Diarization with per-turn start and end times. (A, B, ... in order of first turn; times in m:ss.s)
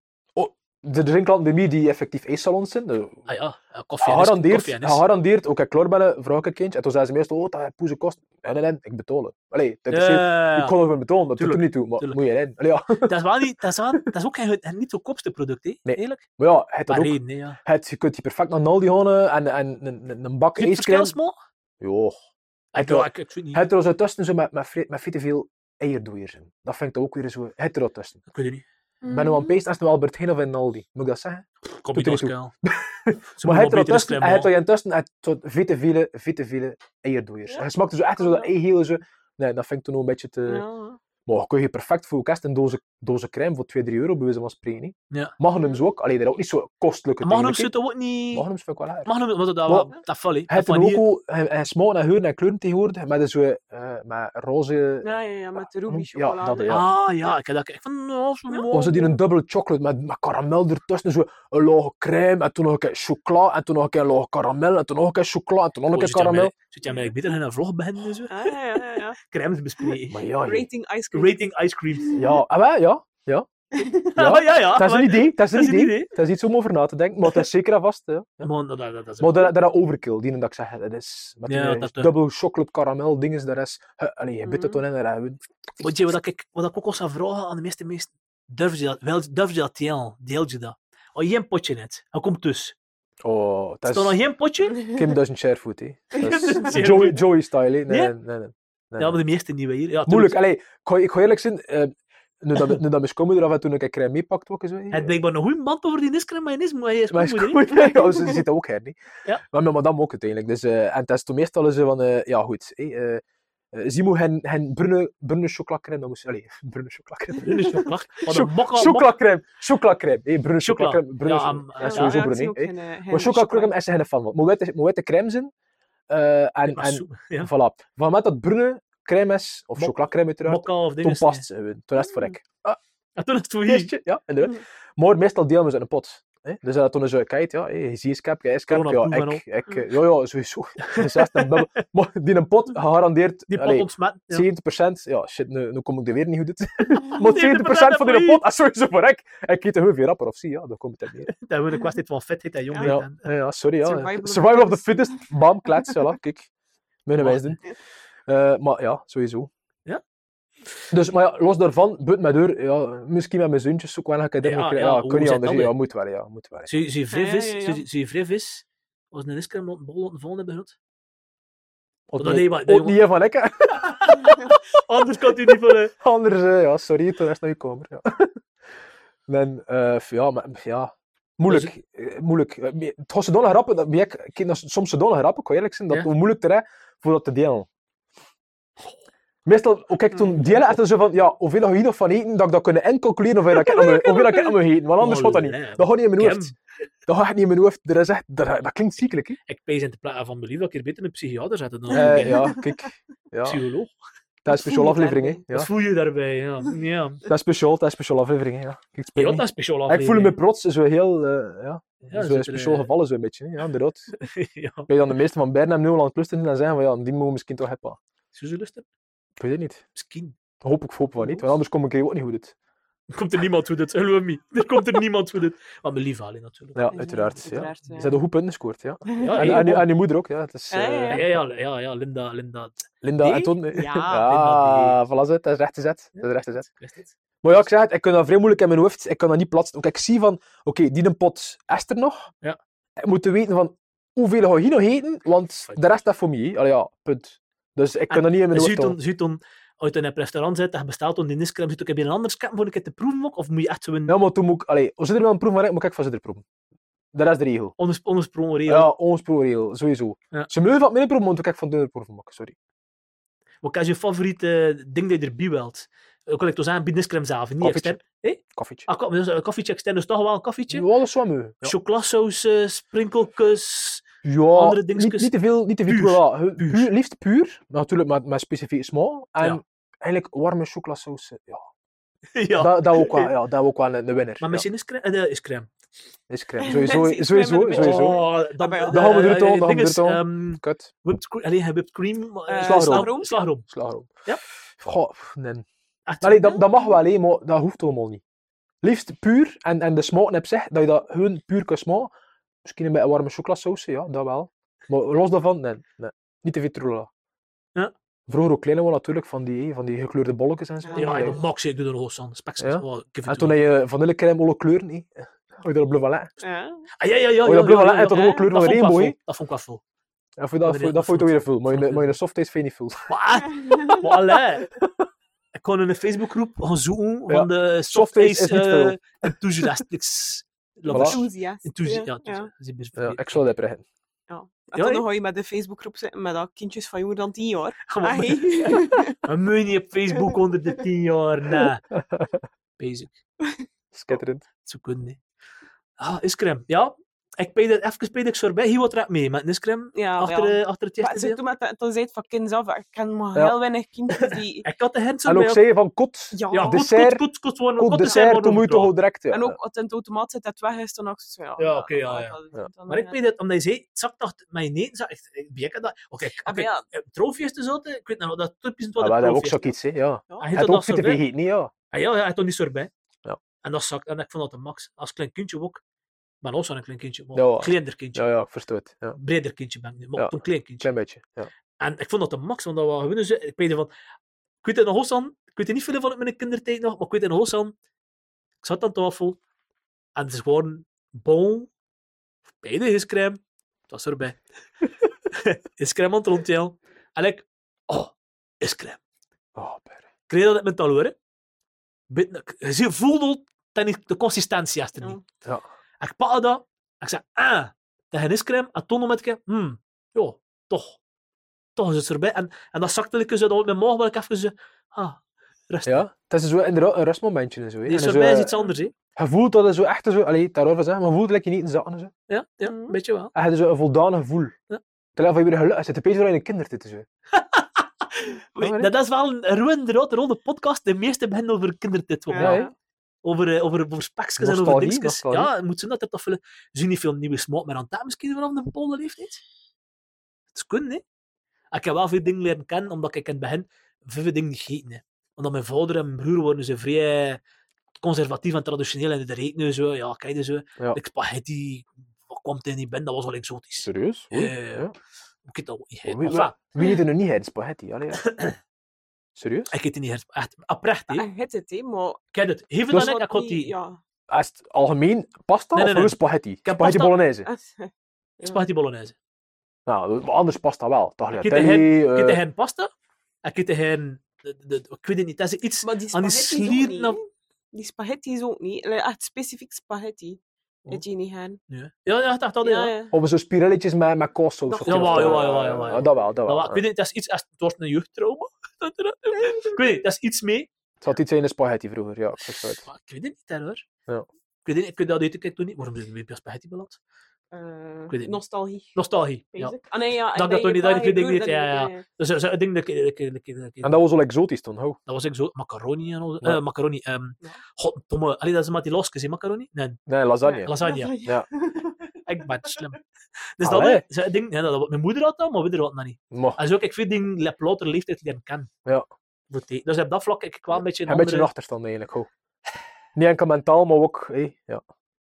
0:00.4-0:03.3 A
0:03.3-0:05.0 B
0:04.0-0:13.2 A
0:09.9-0:10.7 B
0:11.4-0:12.2 B
0:13.1-0:16.2 B
0:15.9-0:21.2 A
0:16.9-0:17.6 B
0:20.6-0:21.4 B
0:21.8-0:22.2 A
0:22.7-0:23.6 B
0:22.8-0:28.2 A
0:28.3-0:28.6 B
0:29.0-0:29.6 C
0:29.1-0:40.7 A
0:31.8-0:32.5 B
0:33.4-0:34.5 B
0:37.5-0:38.5 C
0:40.5-0:41.0 C
0:41.3-0:47.7 A
0:45.6-0:45.8 C
0:47.2-0:48.5 B
0:48.3-0:49.1 A
0:49.0-0:51.0 B
0:50.5-0:55.1 A
0:55.0-0:56.8 C
0:55.9-0:56.9 A
0:56.7-0:59.1 B
0:58.7-1:06.5 A
1:05.9-1:10.2 B
1:08.3-1:09.2 C
1:10.1-1:10.7 A
1:10.4-1:12.4 C
1:11.1-1:12.2 B
1:12.2-1:13.5 A
1:13.7-1:14.1 C
1:14.1-1:18.5 A
1:14.2-1:16.1 B
1:18.4-1:19.5 B
1:19.2-1:26.0 A
1:21.5-1:22.1 B
1:24.4-1:24.8 C
1:25.8-1:32.8 B
1:33.2-1:34.2 A
1:33.9-1:34.8 B
1:34.9-1:39.2 A
1:36.2-1:37.2 B
1:37.9-1:38.1 B
1:39.0-1:40.4 B
1:40.1-1:45.2 A
1:44.9-1:47.9 B
1:47.1-1:53.2 A
1:47.7-1:48.4 C
1:53.7-2:05.5 A
1:57.4-1:59.1 B
2:00.6-2:02.3 B
2:01.8-2:03.7 C
2:06.1-2:12.8 A
2:06.7-2:07.5 B
2:09.8-2:11.4 B
2:12.0-2:12.4 C
2:13.2-2:14.0 B
2:13.7-2:31.3 A
2:18.7-2:19.4 B
2:20.9-2:21.6 B
2:23.5-2:24.5 B
2:27.1-2:28.4 B
2:31.3-2:33.2 B
2:32.7-2:33.0 C
2:32.8-2:36.5 A
2:33.8-2:36.0 C
2:37.1-2:37.7 A
2:37.2-2:37.6 B
2:38.3-2:39.5 A
2:40.9-2:46.7 A
2:44.4-2:45.8 B
2:46.7-2:50.8 B
2:47.1-2:47.8 C
2:52.1-2:54.6 A
2:52.2-2:53.0 B
2:53.8-2:55.9 B
2:55.5-2:58.4 A
2:59.3-3:07.7 A
3:09.5-3:16.5 A
3:10.2-3:10.7 B
3:15.0-3:16.6 B
3:17.1-3:19.4 A
3:19.5-3:22.5 B
3:21.9-3:23.6 A
3:21.9-3:22.7 C
3:23.4-3:23.9 B
3:24.4-3:25.7 A
3:24.5-3:25.4 C
3:25.5-3:27.2 B
3:27.3-3:34.1 A
3:29.2-3:30.4 B
3:32.0-3:32.9 B
3:34.2-3:34.9 B
3:34.9-3:38.0 A
3:38.3-3:38.8 B
3:39.4-3:39.8 A
3:40.0-3:40.4 B
3:40.6-3:42.6 A
3:43.1-3:46.9 B
3:46.8-3:51.2 A
3:46.9-3:48.2 C
3:49.1-3:49.7 C
3:49.2-3:49.9 B
3:50.7-3:51.3 C
3:51.1-3:53.4 B
3:53.0-3:56.7 A
3:53.2-3:54.2 C
3:54.2-3:55.0 B
3:56.8-3:57.6 B
3:57.4-4:02.3 A
4:03.0-4:09.0 A
4:08.1-4:14.2 B
4:14.1-4:16.4 A
4:17.1-4:17.8 A
4:17.8-4:18.9 B
4:18.7-4:22.6 A
4:23.6-4:30.9 B
4:27.6-4:28.0 A
4:28.5-4:28.9 A
4:30.7-4:31.8 A
4:31.6-4:35.3 B
4:34.2-4:41.7 A
4:35.9-4:36.9 B
4:42.4-4:43.3 B
4:42.6-4:44.6 A
4:44.4-4:45.7 B
4:46.3-4:48.3 A
4:46.6-4:49.1 C
4:47.7-4:53.7 B
4:48.9-4:50.9 A
4:52.5-4:53.4 C
4:52.6-4:53.1 A
4:53.6-4:54.1 A
4:54.7-4:55.7 A
4:56.1-4:56.6 B
4:56.2-4:58.2 A
4:58.8-5:02.1 A
5:02.6-5:07.1 A
5:08.3-5:11.4 A
5:10.8-5:11.4 C
5:11.0-5:13.6 B
5:12.6-5:16.3 A
5:16.4-5:16.9 C
5:17.0-5:19.8 B
5:17.4-5:19.2 A
5:18.1-5:18.4 C
5:20.4-5:23.1 A
5:20.6-5:22.2 B
5:23.1-5:24.7 B
5:23.5-5:24.0 C
5:24.6-5:25.0 A
5:25.6-5:33.5 B
5:27.3-5:29.7 A
5:30.9-5:32.5 C
5:30.9-5:31.2 A
5:33.0-5:33.8 A
5:34.3-5:39.2 C
5:34.8-5:35.0 B
5:37.9-5:41.8 B
5:40.1-5:40.4 C
5:41.9-5:42.4 A
5:42.8-5:43.2 B
5:43.9-5:44.4 A
5:44.6-5:45.2 B
5:46.0-5:51.4 B
5:50.0-5:54.6 C
5:54.6-5:55.6 B
5:55.3-5:57.2 A
5:56.3-5:56.8 C
5:56.5-5:58.9 B
5:57.8-5:59.6 A
5:59.3-6:03.2 C
6:01.6-6:02.4 B
6:02.9-6:09.7 B
6:06.4-6:06.9 C
6:09.0-6:11.7 A
6:10.4-6:11.2 B
6:11.9-6:12.9 B
6:13.6-6:15.8 B
6:16.4-6:18.2 B
6:17.4-6:19.2 A
6:19.2-6:20.9 B
6:20.2-6:21.5 A
6:21.8-6:23.9 B
6:24.6-6:27.7 B
6:28.6-6:29.4 B
6:30.2-6:31.7 B
6:32.6-6:34.4 B
6:35.3-6:39.0 B
6:39.6-6:40.1 A
6:40.3-6:41.2 B
6:42.1-6:45.2 B
6:46.0-6:51.0 B
6:51.8-6:56.1 B
6:55.9-6:58.6 A
6:57.9-6:58.9 B
6:59.2-7:02.1 A
7:02.3-7:03.3 B
7:02.6-7:03.0 C
7:03.3-7:04.6 A
7:05.2-7:07.1 A
7:07.3-7:12.6 B
7:08.6-7:08.9 A
7:12.3-7:12.7 C
7:12.4-7:12.7 A
7:13.2-7:19.4 B
7:14.4-7:15.5 A
7:20.5-7:21.0 B
7:21.7-7:27.4 B
7:28.0-7:34.9 B
7:33.8-7:34.9 A
7:35.5-7:36.6 B
7:36.0-7:38.4 A
7:38.2-7:38.6 B
7:39.4-7:39.7 A
7:39.7-7:41.3 B
7:41.1-7:42.2 C
7:42.3-7:43.7 B
7:42.9-7:44.0 C
7:44.3-7:47.5 A
7:45.8-7:47.1 B
7:47.5-7:48.6 C
7:48.4-7:49.2 B
7:49.9-7:52.4 A
7:51.4-7:52.9 B
7:53.4-7:57.2 B
7:55.8-8:01.6 C
8:01.7-8:02.9 B
8:02.6-8:03.1 C
8:03.1-8:06.8 A
8:04.7-8:06.1 C
8:04.9-8:10.7 B
8:09.4-8:09.8 C
8:11.0-8:12.9 A
8:12.8-8:13.8 B
8:14.6-8:17.0 B
8:17.5-8:19.0 C
8:18.1-8:18.4 B
8:18.9-8:19.8 B
8:19.5-8:22.0 C
8:20.3-8:24.0 B
8:23.8-8:25.0 A
8:25.1-8:30.0 B
8:30.1-8:30.7 A
8:30.4-8:32.7 C
8:30.6-8:31.2 B
8:32.3-8:33.0 B
8:33.6-8:38.7 B
8:33.6-8:34.0 A
8:36.3-8:36.6 A
8:39.5-8:41.5 B
8:41.1-8:42.3 A
8:43.2-8:44.8 A